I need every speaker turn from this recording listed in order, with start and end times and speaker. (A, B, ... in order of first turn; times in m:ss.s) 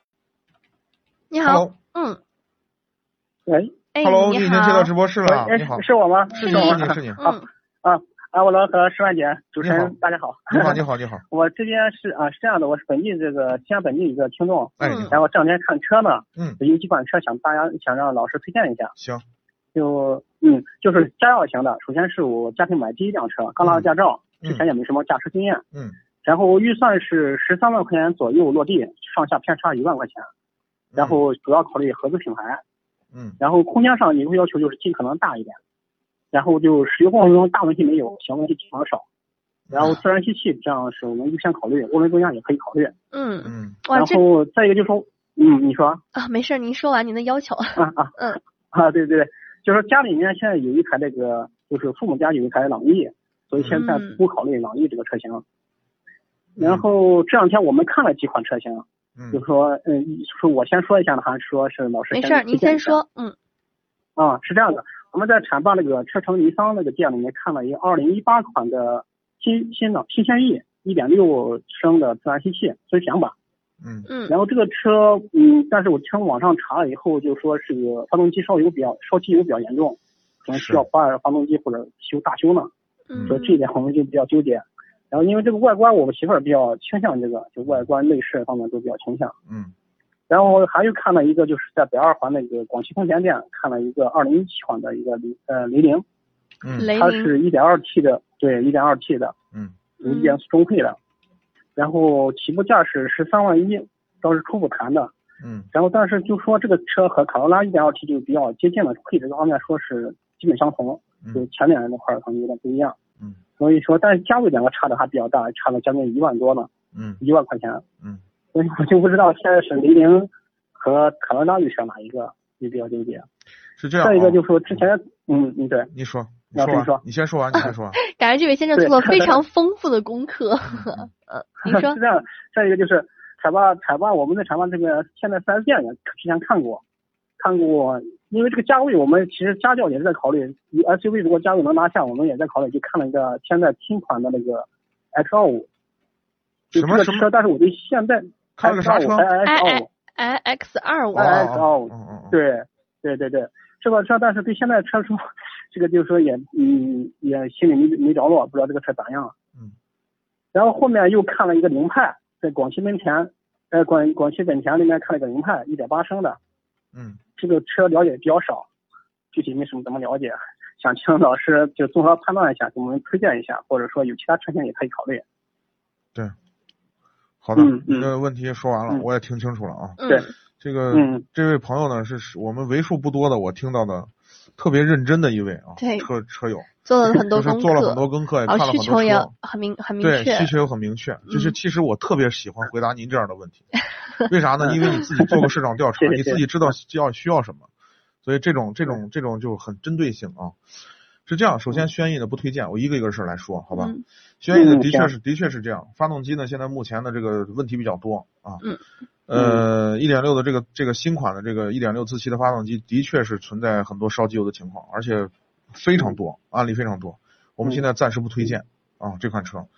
0:01.3-0:02.2 A
0:01.4-0:01.8 B
0:03.5-0:03.8 C
0:03.9-0:04.9 A
0:04.0-0:07.2 B
0:05.2-0:18.9 C
0:06.4-0:07.4 A
0:09.6-0:10.0 B
0:10.5-0:11.2 B
0:14.8-0:15.2 B
0:14.8-0:15.1 A
0:19.0-0:19.2 B
0:19.7-0:25.6 C
0:23.6-0:23.9 B
0:25.7-0:26.0 B
0:26.2-0:30.3 C
0:31.0-0:31.2 B
0:31.0-0:32.6 C
0:33.1-0:33.4 B
0:33.4-0:35.6 C
0:36.3-0:39.0 C
0:39.7-0:40.0 B
0:39.7-0:42.9 C
0:43.1-0:44.2 A
0:43.4-0:43.8 B
0:43.9-0:46.0 C
0:46.2-0:48.4 A
0:47.8-0:55.4 C
0:53.5-0:53.8 B
0:53.7-0:54.2 A
0:56.6-0:56.9 B
0:56.6-1:03.0 C
0:59.2-0:59.4 B
1:02.1-1:03.3 A
1:04.2-1:13.3 C
1:13.8-1:14.1 B
1:14.1-1:14.3 A
1:14.3-1:22.7 C
1:20.5-1:20.9 B
1:23.1-1:23.6 A
1:23.3-1:29.3 C
1:29.5-1:29.7 B
1:30.3-1:36.0 C
1:36.6-1:36.9 B
1:36.7-1:37.3 A
1:36.9-1:39.3 C
1:40.0-1:40.4 A
1:40.0-1:41.0 C
1:41.8-1:45.1 C
1:45.4-1:45.7 B
1:45.7-1:53.0 C
1:53.6-1:57.8 C
1:56.9-1:57.2 B
1:58.5-2:03.3 C
2:03.8-2:04.9 B
2:04.0-2:05.9 C
2:05.9-2:08.0 B
2:06.5-2:07.0 C
2:08.0-2:12.0 A
2:08.8-2:09.4 C
2:10.7-2:11.1 B
2:11.6-2:16.8 C
2:17.4-2:25.7 C
2:26.7-2:27.3 B
2:26.7-2:29.9 C
2:28.6-2:29.3 B
2:29.4-2:31.4 A
2:31.1-2:32.4 B
2:31.1-2:39.3 C
2:40.5-2:46.4 C
2:46.9-2:47.2 B
2:47.4-2:48.7 C
2:49.3-2:55.2 C
2:57.4-3:00.0 B
2:57.6-2:58.1 C
3:00.0-3:00.3 A
3:00.1-3:00.3 C
3:00.6-3:09.3 B
3:00.9-3:01.2 C
3:05.8-3:06.1 A
3:06.8-3:10.5 A
3:10.0-3:13.6 B
3:11.3-3:11.6 A
3:14.2-3:17.7 B
3:14.6-3:15.5 C
3:16.0-3:16.5 C
3:18.2-3:20.6 B
3:21.2-3:28.6 B
3:23.7-3:24.0 A
3:24.5-3:25.1 C
3:29.3-3:39.7 B
3:29.3-3:29.6 C